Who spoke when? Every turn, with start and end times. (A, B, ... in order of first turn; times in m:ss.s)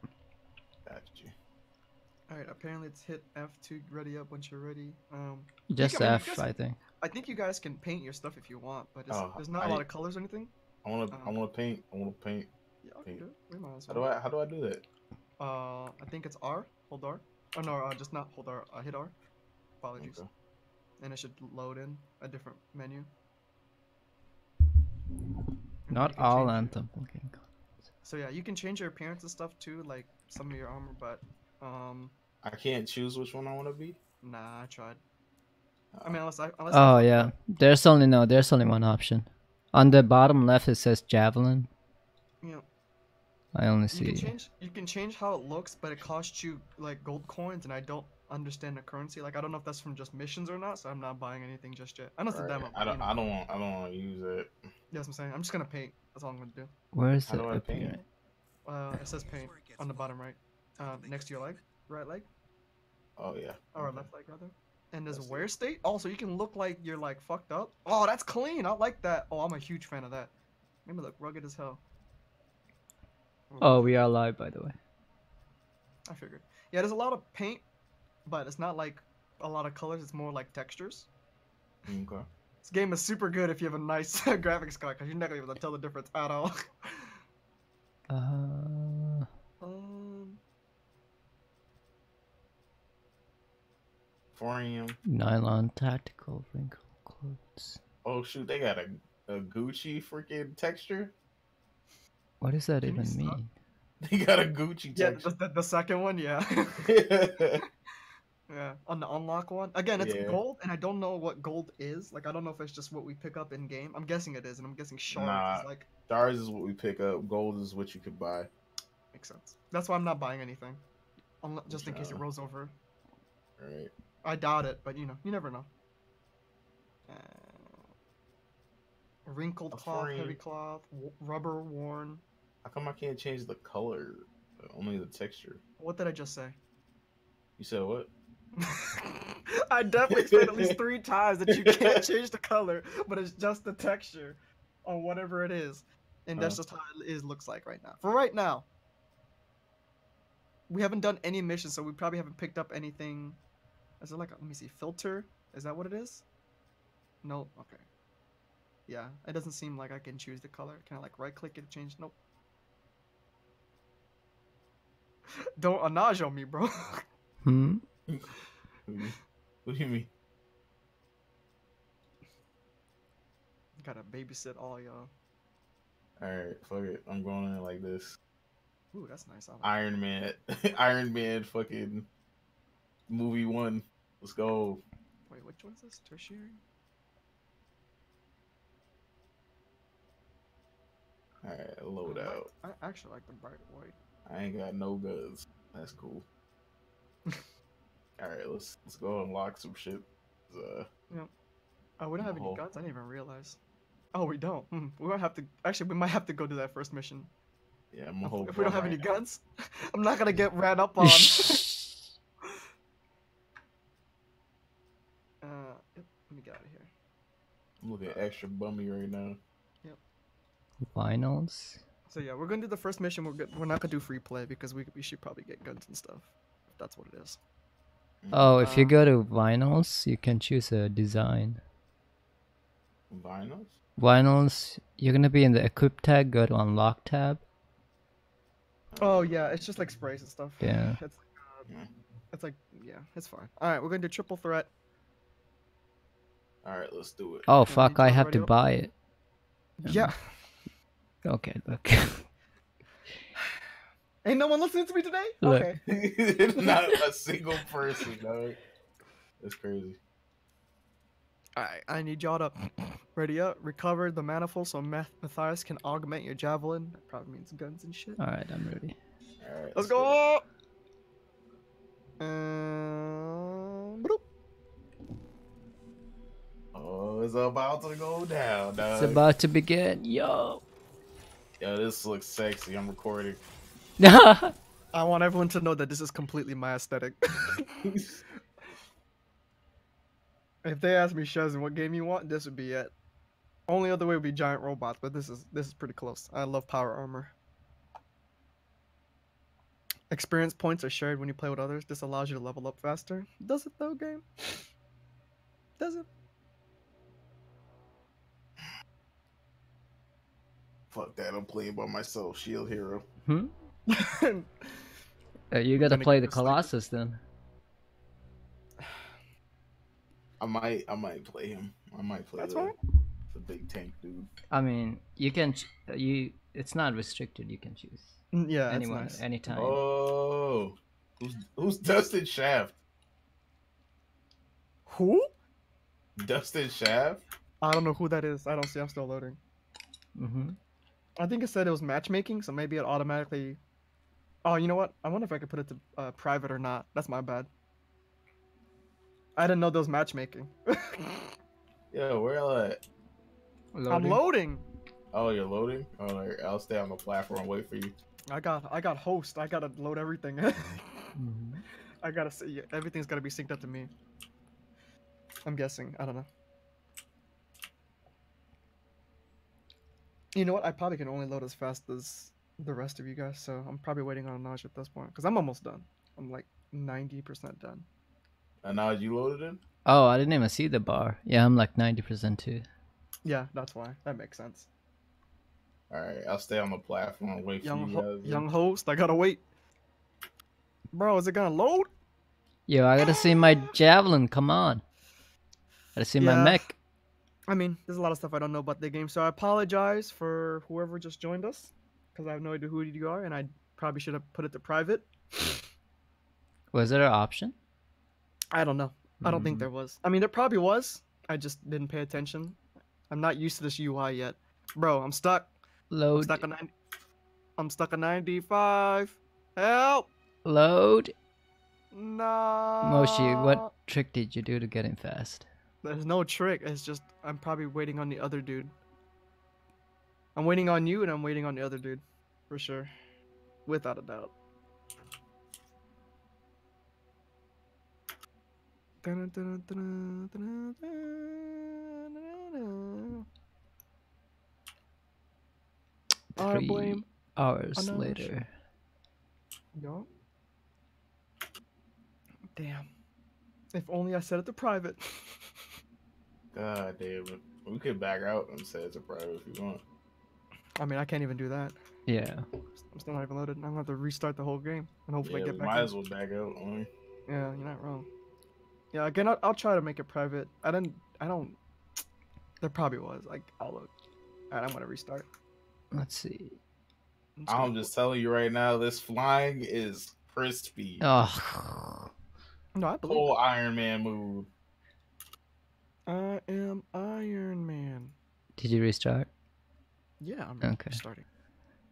0:00.9-0:01.4 A
0:02.3-0:06.5 B
0:05.7-0:06.8 C
0:07.0-0:10.5 B
0:09.1-0:09.9 A
0:10.8-0:12.5 A
0:11.1-0:11.4 B
0:12.8-0:14.1 B
0:13.9-0:14.8 A
0:15.4-0:19.2 B
0:19.8-0:20.2 B
0:20.0-0:20.3 A
0:21.0-0:23.1 B
0:25.9-0:26.8 B
0:25.9-0:27.4 C
0:28.0-0:32.1 B
0:32.4-0:34.0 A
0:34.2-0:35.0 B
0:35.9-0:36.2 A
0:36.0-0:37.3 B
0:36.7-0:41.7 C
0:43.6-0:44.3 C
0:43.9-0:53.1 B
0:52.3-0:54.6 A
0:54.9-0:56.7 B
0:56.9-0:58.0 C
0:57.2-0:58.0 A
0:58.6-1:02.3 B
1:03.2-1:04.1 A
1:03.7-1:10.3 B
1:05.1-1:05.5 A
1:10.9-1:11.8 B
1:13.5-1:14.0 B
1:13.6-1:14.8 C
1:16.1-1:17.7 B
1:18.3-1:21.1 B
1:21.9-1:22.2 A
1:22.6-1:27.2 B
1:28.1-1:29.3 C
1:29.6-1:30.4 B
1:34.3-1:35.0 A
1:35.1-1:37.8 C
1:38.0-1:41.1 A
1:42.4-1:43.5 C
1:42.8-1:43.4 B
1:44.0-1:45.3 A
1:44.9-1:46.9 B
1:46.8-1:47.6 A
1:48.5-1:55.9 B
1:50.0-1:50.4 A
1:55.1-1:58.5 A
1:59.1-2:00.8 B
2:01.4-2:02.7 B
2:01.7-2:02.2 A
2:03.6-2:03.9 A
2:04.2-2:05.7 B
2:07.1-2:07.8 B
2:09.3-2:12.2 B
2:09.7-2:10.4 A
2:12.6-2:15.6 A
2:15.8-2:16.6 B
2:17.6-2:18.1 A
2:18.6-2:28.7 B
2:20.1-2:20.8 A
2:21.5-2:22.0 A
2:30.7-2:33.4 B
2:34.0-2:36.2 B
2:37.2-2:37.9 B
2:38.9-2:42.2 B
2:45.6-2:47.1 B
2:47.4-2:47.8 C
2:48.9-2:50.1 A
2:53.8-2:55.1 B
2:56.2-2:58.2 A
2:58.9-2:59.8 B
2:59.6-3:02.1 A
3:03.1-3:04.8 A
3:05.3-3:06.6 B
3:11.4-3:12.5 A
3:12.0-3:14.0 B
3:14.3-3:16.3 A
3:18.2-3:20.9 A
3:22.0-3:23.6 B
3:22.2-3:22.6 A
3:24.1-3:27.3 B
3:27.9-3:29.0 A
3:28.2-3:31.6 B
3:31.0-3:32.0 C
3:35.4-3:36.9 B
3:37.8-3:39.4 A
3:40.8-3:41.8 C
3:42.1-3:47.4 B
3:48.2-3:48.6 A
3:48.3-3:51.6 C
3:48.6-3:49.0 B
3:53.1-3:53.8 A
3:54.0-3:57.4 C
3:58.9-3:59.4 A
3:59.0-4:01.7 B
4:00.6-4:01.0 C
4:02.3-4:04.7 B
4:06.6-4:07.4 A
4:07.5-4:08.9 C
4:07.7-4:08.5 B
4:09.8-4:10.6 B
4:09.8-4:10.1 C
4:11.2-4:12.3 C
4:14.2-4:15.8 B
4:15.4-4:15.8 C
4:15.9-4:18.6 A
4:19.4-4:20.0 A
4:21.6-4:28.2 B
4:28.2-4:29.0 C
4:29.4-4:30.2 A
4:29.8-4:30.4 B
4:32.2-4:34.2 B
4:36.7-4:39.2 A
4:38.8-4:40.6 C
4:41.6-4:43.4 A
4:44.0-4:44.5 C
4:44.9-4:47.8 B
4:47.8-4:48.2 A
4:50.6-4:52.9 B
4:53.7-4:57.3 B
5:00.1-5:04.6 B
5:05.8-5:06.1 B
5:10.9-5:13.0 A
5:13.3-5:13.5 C
5:13.9-5:14.7 B
5:15.5-5:17.2 C
5:15.8-5:16.7 B
5:18.8-5:19.1 B
5:20.4-5:22.7 A
5:22.4-5:22.8 B
5:23.3-5:24.3 A
5:24.5-5:29.8 C
5:28.3-5:29.2 B
5:29.5-5:32.8 A
5:34.9-5:35.3 B
5:36.2-5:37.2 A
5:37.6-5:39.4 B
5:40.2-5:40.6 C
5:41.2-5:43.6 B
5:44.4-5:47.5 B
5:49.4-5:51.3 B
5:51.9-5:52.8 A
5:53.7-5:54.2 C
5:53.9-5:54.6 B
5:55.1-5:58.0 A
5:58.3-6:01.1 B
6:01.2-6:01.6 C
6:02.0-6:03.9 B
6:05.5-6:06.3 B
6:10.4-6:17.9 B
6:18.6-6:19.6 A
6:19.9-6:22.6 C
6:23.2-6:24.7 B
6:25.9-6:28.5 A
6:27.6-6:29.4 B
6:30.9-6:31.9 B
6:32.7-6:34.8 C
6:36.0-6:36.8 C
6:36.2-6:36.6 B
6:37.5-6:45.5 B
6:46.7-6:47.6 C
6:48.5-6:52.6 B
6:49.2-6:49.7 C
6:53.1-6:55.6 B
6:55.9-6:56.4 C
6:56.2-6:56.7 B
6:57.6-7:00.1 B
7:00.4-7:01.1 C
7:01.9-7:03.7 B
7:02.8-7:05.5 C
7:05.8-7:08.7 B
7:10.4-7:12.9 B
7:13.7-7:14.3 B
7:19.0-7:23.3 B
7:26.4-7:27.1 B
7:26.4-7:28.5 C
7:27.8-7:28.3 B
7:29.8-7:30.1 B
7:32.6-7:32.9 B
7:33.7-7:35.5 B
7:36.5-7:39.8 A
7:40.8-7:41.8 B
7:42.1-7:42.5 C
7:42.8-7:45.9 B
7:45.2-7:46.9 A
7:47.3-7:48.1 B
7:48.9-7:51.6 B
7:52.6-7:53.9 B
7:54.5-7:55.3 B
7:55.9-7:56.6 C
7:57.4-7:57.9 B
7:57.5-8:01.1 A
8:01.0-8:02.1 C
8:02.8-8:03.4 B
8:03.1-8:04.5 A
8:06.1-8:08.2 B
8:08.6-8:09.3 C
8:10.2-8:11.3 B
8:10.6-8:11.0 C